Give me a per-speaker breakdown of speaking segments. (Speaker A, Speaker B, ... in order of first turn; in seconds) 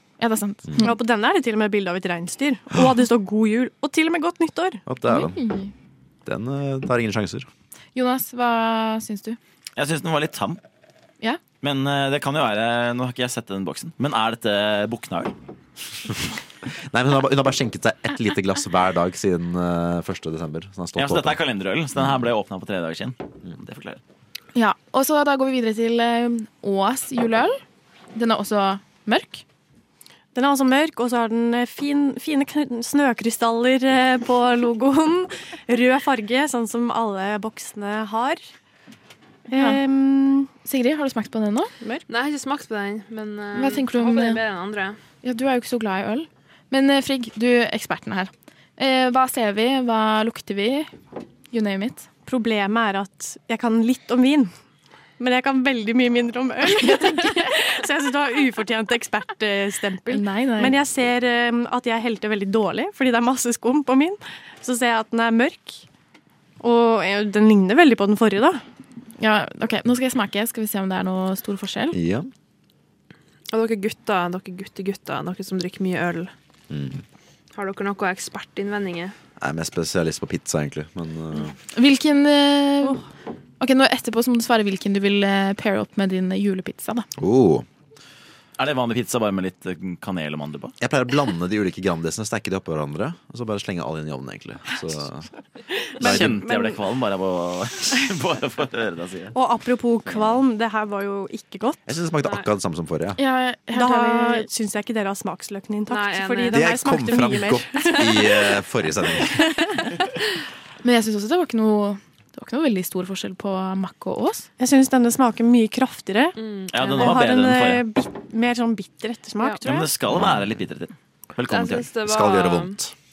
Speaker A: 0.2-1.0, 5.0-5.7, 7.9-9.4, 24.5-27.6, 28.1-29.4, 39.5-39.8, 40.6-41.7, 43.5-44.4, 45.2-50.9, 51.5-52.1, 60.1-60.8, 69.2-72.0, 81.7-83.0, 83.6-87.1, 103.2-104.5, 110.8-114.5
Speaker B: 0.8-4.8, 30.3-38.4, 39.5-40.5, 52.2-54.5, 55.2-65.8, 66.6-68.6, 95.7-96.8, 99.3-101.8, 103.7-108.6, 109.1-109.9, 114.6-116.4, 116.9-119.9
Speaker C: 4.8-5.4, 6.2-7.5, 16.6-21.4, 71.9-72.3, 76.7-77.0, 79.4-81.5, 87.2-87.7, 90.8-95.3, 96.0-96.4, 101.9-103.2, 106.5-109.5, 120.1-120.5, 122.0-122.9
Speaker D: 9.8-10.6, 11.6-15.3, 20.9-24.0, 88.6-90.7, 96.0-99.3, 116.7-117.8, 119.6-121.9
Speaker E: 42.1-45.0, 73.5-76.3, 77.5-79.1, 105.9-106.7, 116.4-117.2, 121.5-122.8